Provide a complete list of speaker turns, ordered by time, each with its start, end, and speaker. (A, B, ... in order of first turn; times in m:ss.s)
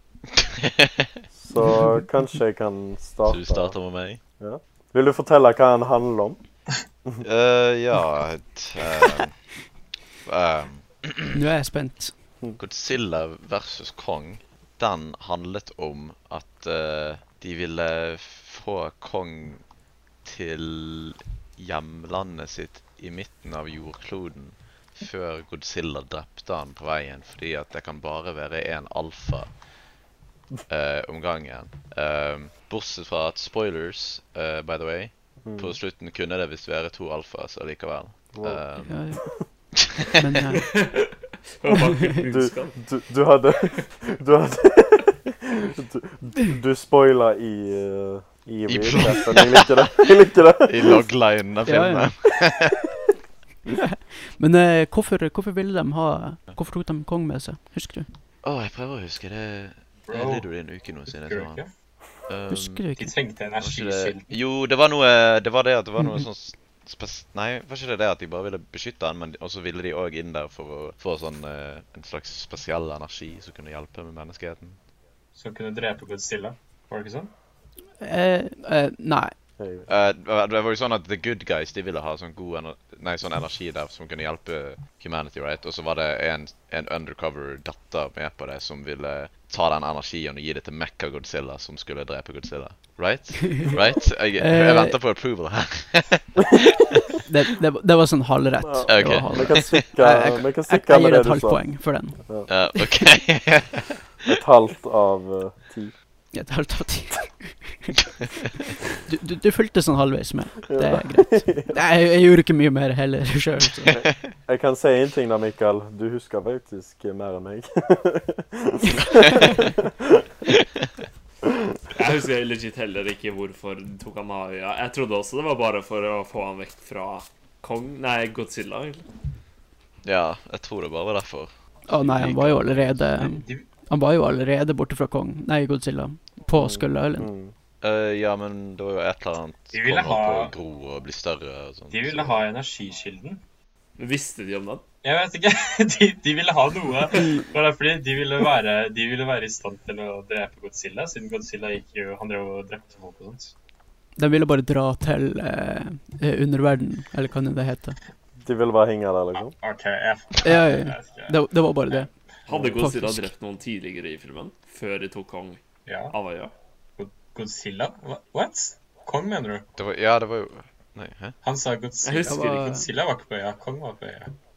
0:00.4-0:01.2 A
0:01.4-0:03.8 B
0:03.3-0:04.2 A
0:04.4-0:06.4 B
0:07.2-0:09.4 A
0:10.2-0:11.4 A
0:11.3-0:12.2 C
0:12.6-0:19.6 A
0:20.2-0:29.5 A
0:30.7-0:39.2 A
0:35.4-0:35.8 B
0:38.3-0:38.6 B
0:38.9-0:39.4 C
0:39.8-0:40.2 A
0:40.2-0:40.8 C
0:40.7-0:42.8 D
0:42.2-0:51.1 B
0:48.7-0:49.8 A
0:50.6-0:52.9 A
0:51.6-0:52.1 C
0:53.7-0:58.1 C
0:58.4-1:01.6 A
1:00.1-1:00.5 E
1:01.1-1:01.7 E
1:02.3-1:02.9 A
1:02.5-1:03.1 C
1:03.0-1:04.3 E
1:03.6-1:14.8 A
1:15.4-1:17.3 E
1:18.0-1:19.3 C
1:19.6-1:19.9 B
1:19.9-1:37.1 A
1:34.4-1:35.0 C
1:37.3-1:42.2 C
1:38.6-1:41.7 B
1:38.9-1:39.9 A
1:42.5-1:44.3 A
1:42.7-1:43.0 C
1:44.3-1:45.9 B
1:46.3-1:48.0 C
1:49.1-1:54.0 C
1:50.7-1:51.8 B
1:53.9-2:00.2 B
1:59.2-1:59.5 A
2:00.5-2:00.8 A
2:01.9-2:09.0 D
2:10.0-2:13.1 A
2:11.9-2:17.3 C
2:13.2-2:13.7 E
2:16.5-2:17.5 B
2:17.8-2:22.4 A
2:19.7-2:20.5 E
2:21.9-2:23.4 E
2:24.0-2:24.8 D
2:25.0-2:33.5 E
2:34.2-2:38.0 C
2:38.4-2:39.5 B
2:39.6-2:41.4 E
2:40.4-2:42.1 C
2:42.5-2:46.5 D
2:42.5-2:42.8 B
2:42.8-2:43.3 C
2:45.9-2:46.2 E
2:47.0-2:49.7 E
2:49.8-2:51.4 A
2:51.4-2:54.3 E
2:52.0-2:52.7 D
2:52.3-2:52.8 C